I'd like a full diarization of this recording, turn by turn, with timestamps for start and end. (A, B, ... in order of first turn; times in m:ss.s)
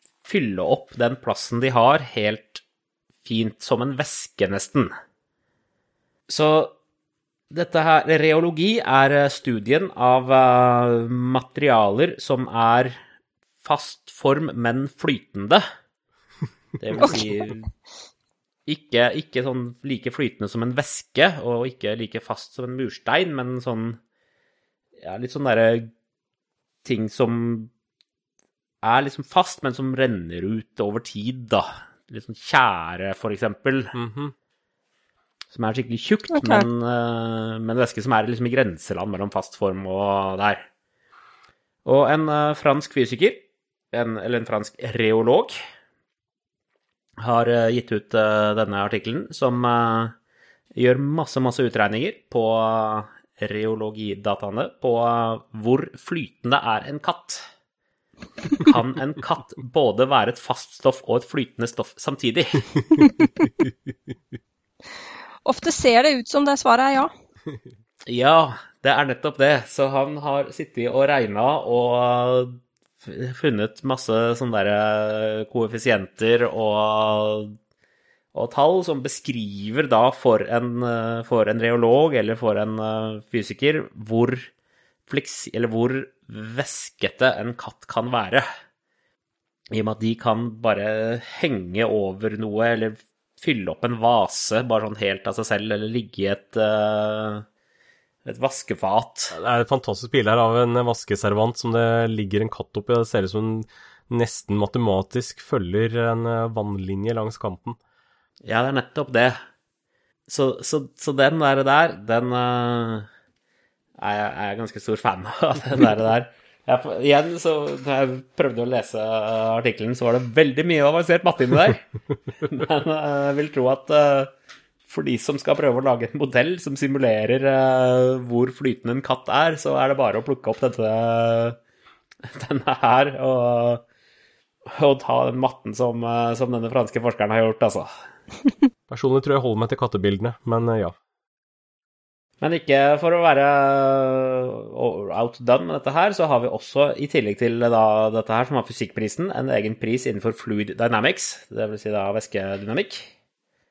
0:00.2-0:02.6 A
0:03.2-0:04.9 A
0:06.3-0:06.7 A
0:07.5-0:13.0 A
0:13.6-0:15.6 A
0:16.8-0:17.7 A
0:17.0-0:17.5 B
0:18.7-0:24.0 A
0:25.0-0:25.9 A
0:26.8-0:27.7 A
0:28.8-0:33.9 A
0:33.9-0:34.3 C
0:35.5-0:40.6 A
0:36.3-0:36.6 B
0:41.8-0:45.5 A
0:47.2-0:50.1 A
0:50.7-0:57.4 A
0:58.6-1:02.7 A
1:05.4-1:07.1 B
1:08.1-1:17.5 A
1:18.3-1:24.5 A
1:25.1-1:28.5 A
1:29.7-1:37.4 A
1:38.2-1:39.4 A
1:39.3-1:47.8 C
1:48.4-1:49.4 A
1:50.3-1:53.1 A
1:54.0-2:01.8 A
2:02.4-2:04.3 A
2:04.9-2:11.6 A
2:12.3-2:13.8 A
2:14.7-2:17.9 A
2:18.9-2:20.9 C
2:22.4-2:33.1 A